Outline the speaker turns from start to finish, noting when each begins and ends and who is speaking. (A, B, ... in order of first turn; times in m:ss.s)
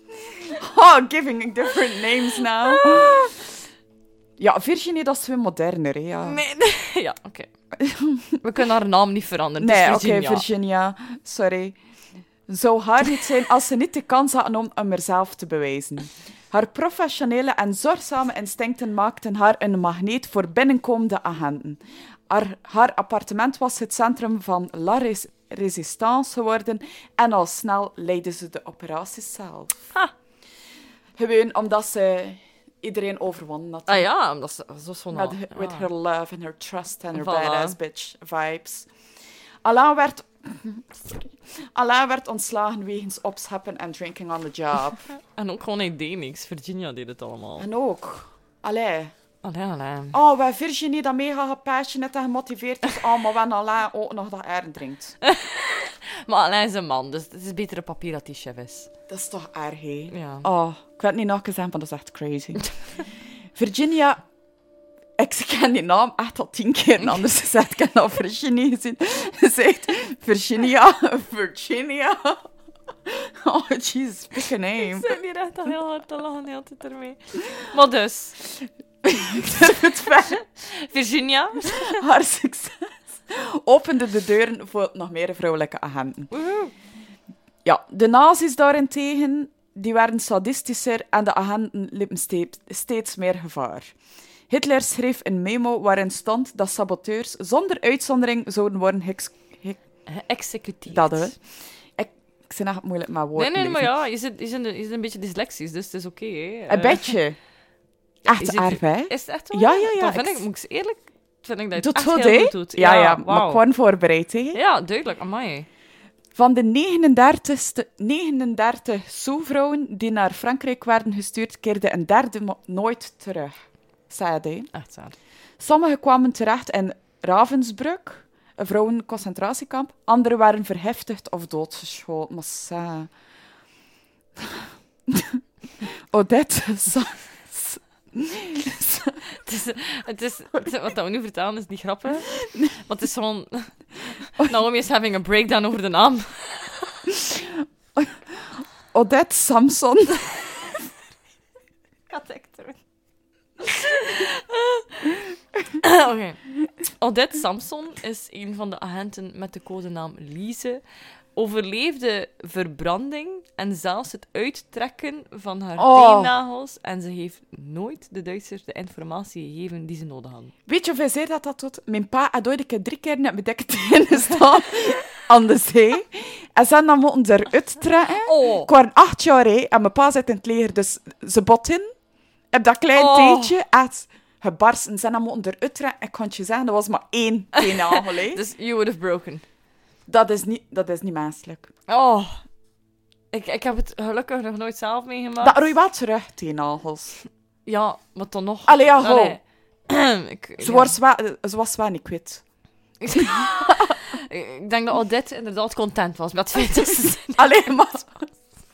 0:00.2-0:03.4 A
0:02.8-0:03.0 B
0:04.4-0:06.4 A
0:06.2-0:07.5 B
0:07.8-0:08.4 A
0:08.4-0:10.5 B
0:09.6-0:11.8 A
0:12.5-0:29.8 A
0:31.2-0:34.1 A
0:33.9-0:35.9 B
0:35.1-0:38.9 A
0:37.1-0:37.8 B
0:39.6-0:45.1 A
0:45.1-0:47.7 B
0:47.6-0:49.1 A
0:49.4-0:50.2 B
0:50.1-0:55.2 A
0:55.2-0:58.9 B
0:59.1-1:02.8 A
1:00.1-1:00.5 B
1:03.6-1:04.2 A
1:05.2-1:12.5 A
1:13.1-1:15.1 A
1:14.8-1:18.4 B
1:19.0-1:20.4 A
1:20.3-1:22.0 B
1:21.6-1:26.3 A
1:26.3-1:26.7 B
1:27.6-1:33.9 A
1:34.5-1:39.8 A
1:40.1-1:41.3 B
1:40.9-1:41.4 A
1:42.0-1:43.9 A
1:43.4-1:47.1 B
1:46.7-1:47.4 A
1:48.3-1:50.4 A
1:48.3-1:53.6 B
1:51.8-1:54.6 A
1:54.5-1:55.7 B
1:56.4-2:04.7 A
2:04.7-2:05.2 B
2:05.6-2:13.1 A
2:14.4-2:19.2 A
2:19.4-2:23.7 B
2:24.4-2:26.8 B
2:27.1-2:30.8 A
2:32.1-2:32.8 B
2:33.6-2:35.2 B
2:35.8-2:36.4 B
2:37.0-2:40.8 B
2:41.4-2:50.5 B
2:45.8-2:46.3 A
2:50.7-3:01.9 A
2:58.2-2:58.7 B
3:02.5-3:08.4 A
3:02.9-3:03.6 B
3:07.6-3:09.4 B
3:10.1-3:11.7 A
3:11.9-3:12.4 B
3:13.3-3:15.6 B
3:15.4-3:17.2 A
3:17.7-3:21.0 B
3:18.7-3:19.4 A
3:20.6-3:22.4 A
3:23.0-3:27.7 B
3:23.1-3:24.0 A
3:27.4-3:28.3 A